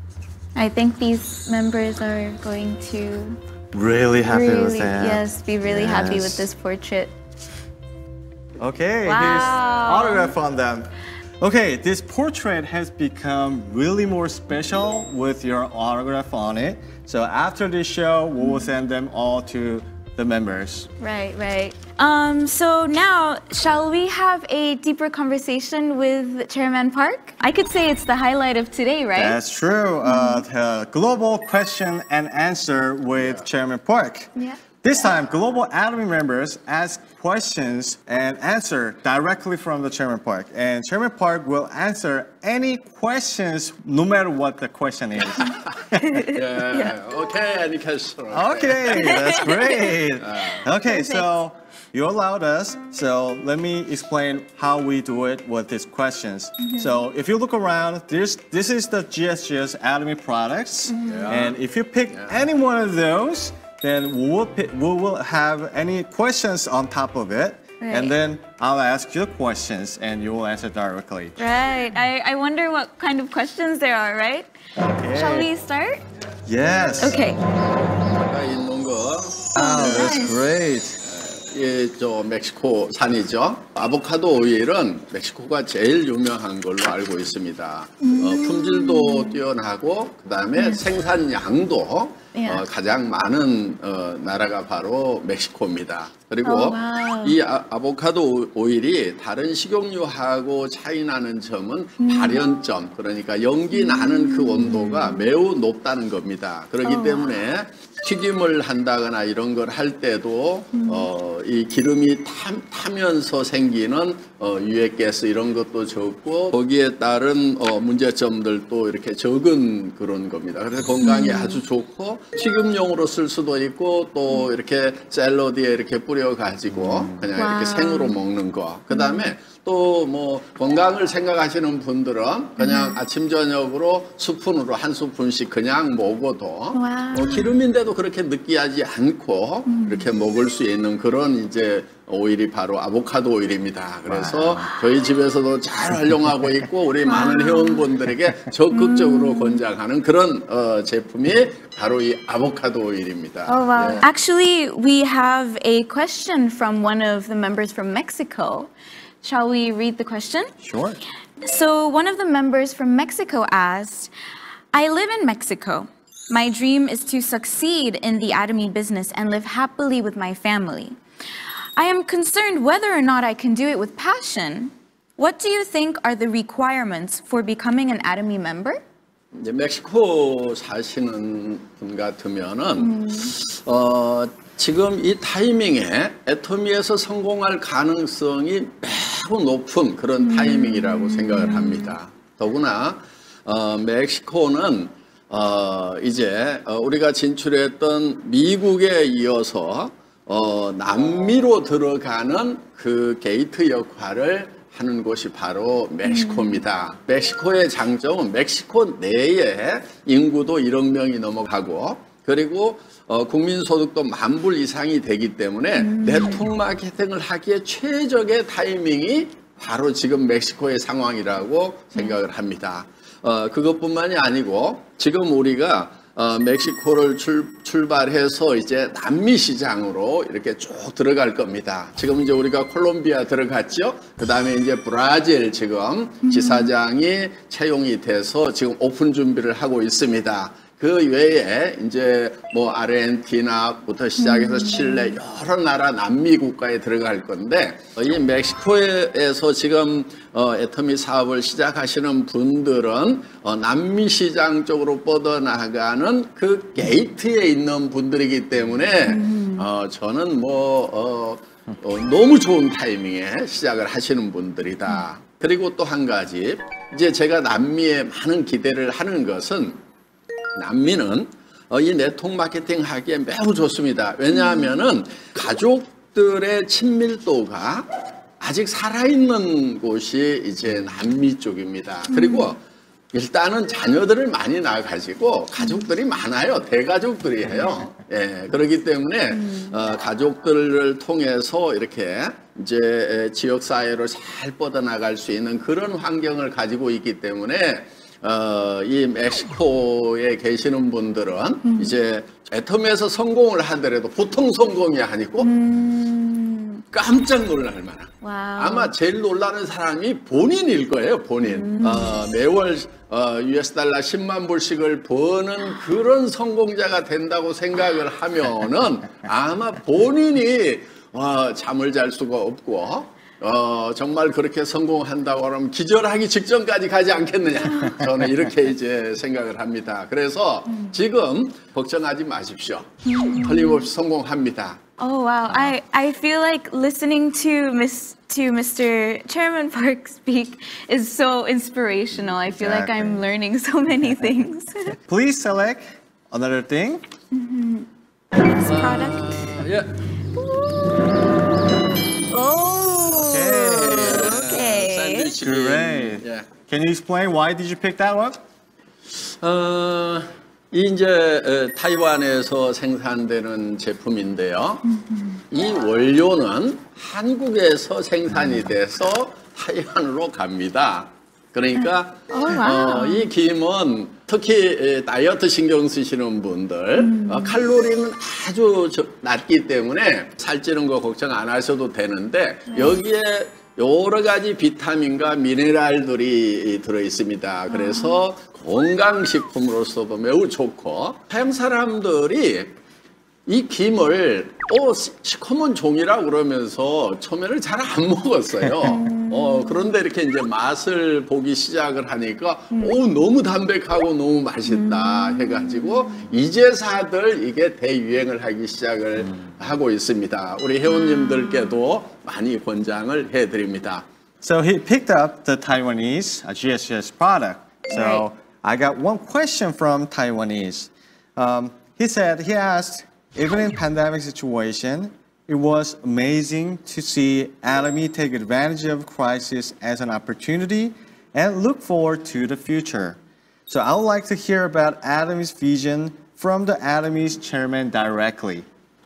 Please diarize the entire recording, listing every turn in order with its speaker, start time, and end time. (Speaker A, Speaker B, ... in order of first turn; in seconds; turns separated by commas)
Speaker A: 0.5-3.4, Speaker B: 3.7-6.5, Speaker A: 4.3-7.1, Speaker B: 8.6-20.9, Speaker A: 9.1-10.3, Speaker A: 18.4-18.7, Speaker A: 21.0-29.4, Speaker B: 29.1-34.3, Speaker A: 30.0-30.4, Speaker C: 33.2-33.5, Speaker B: 34.8-46.3, Speaker A: 46.1-46.9, Speaker C: 46.3-49.5, Speaker B: 48.3-71.4, Speaker A: 49.0-49.9, Speaker C: 50.2-50.6, Speaker A: 50.6-51.3, Speaker A: 56.6-57.0, Speaker A: 60.9-61.4, Speaker C: 61.0-61.6, Speaker C: 62.1-62.4, Speaker A: 67.8-68.1, Speaker A: 71.4-74.5, Speaker B: 74.8-75.5, Speaker A: 75.1-76.0, Speaker B: 76.5-77.2, Speaker C: 76.7-77.3, Speaker A: 77.0-77.4, Speaker C: 77.9-80.3, Speaker A: 79.5-80.3, Speaker B: 79.5-81.0, Speaker C: 81.0-154.1, Speaker A: 88.0-89.4, Speaker A: 92.3-92.6, Speaker A: 96.4-97.4, Speaker A: 102.0-102.4, Speaker A: 103.7-105.3, Speaker A: 106.8-107.3, Speaker A: 110.7-111.1, Speaker A: 121.0-121.6, Speaker A: 127.3-128.2, Speaker A: 128.9-129.3, Speaker A: 132.6-133.0, Speaker A: 136.7-137.5, Speaker A: 139.7-140.1, Speaker B: 144.1-144.7, Speaker A: 147.1-147.9, Speaker A: 148.7-149.6, Speaker A: 153.5-158.7, Speaker A: 159.2-160.5, Speaker B: 160.6-161.0, Speaker A: 161.4-164.1, Speaker A: 164.7-171.0, Speaker A: 171.8-178.8, Speaker C: 179.3-269.8, Speaker A: 182.8-183.3, Speaker A: 190.2-191.9, Speaker A: 206.0-206.6, Speaker A: 215.8-216.4, Speaker A: 236.2-236.7, Speaker A: 244.2-245.2, Speaker A: 259.1-259.7, Speaker C: 270.6-277.9, Speaker A: 274.3-274.7, Speaker C: 278.4-282.6, Speaker A: 282.1-282.5, Speaker C: 283.1-305.5, Speaker A: 285.6-285.8, Speaker A: 289.3-289.8, Speaker A: 301.6-301.9, Speaker A: 305.4-306.8, Speaker C: 306.9-334.8, Speaker A: 308.2-308.9, Speaker A: 311.4-312.2, Speaker A: 327.7-328.0, Speaker A: 333.1-333.9, Speaker A: 335.0-344.9, Speaker B: 342.3-343.2, Speaker B: 345.1-347.0, Speaker A: 347.3-349.4, Speaker C: 348.6-350.0, Speaker A: 350.4-351.1, Speaker A: 352.3-355.3, Speaker B: 353.2-354.4, Speaker C: 353.8-356.5, Speaker B: 355.4-358.4, Speaker C: 359.1-364.8, Speaker A: 364.9-365.4, Speaker C: 365.5-392.7, Speaker A: 372.3-373.3, Speaker A: 377.0-377.6, Speaker A: 382.7-383.0, Speaker A: 387.7-388.2, Speaker C: 393.4-414.1, Speaker A: 398.8-400.0, Speaker A: 404.6-406.3, Speaker A: 411.0-411.7, Speaker B: 414.4-438.6, Speaker A: 417.9-418.2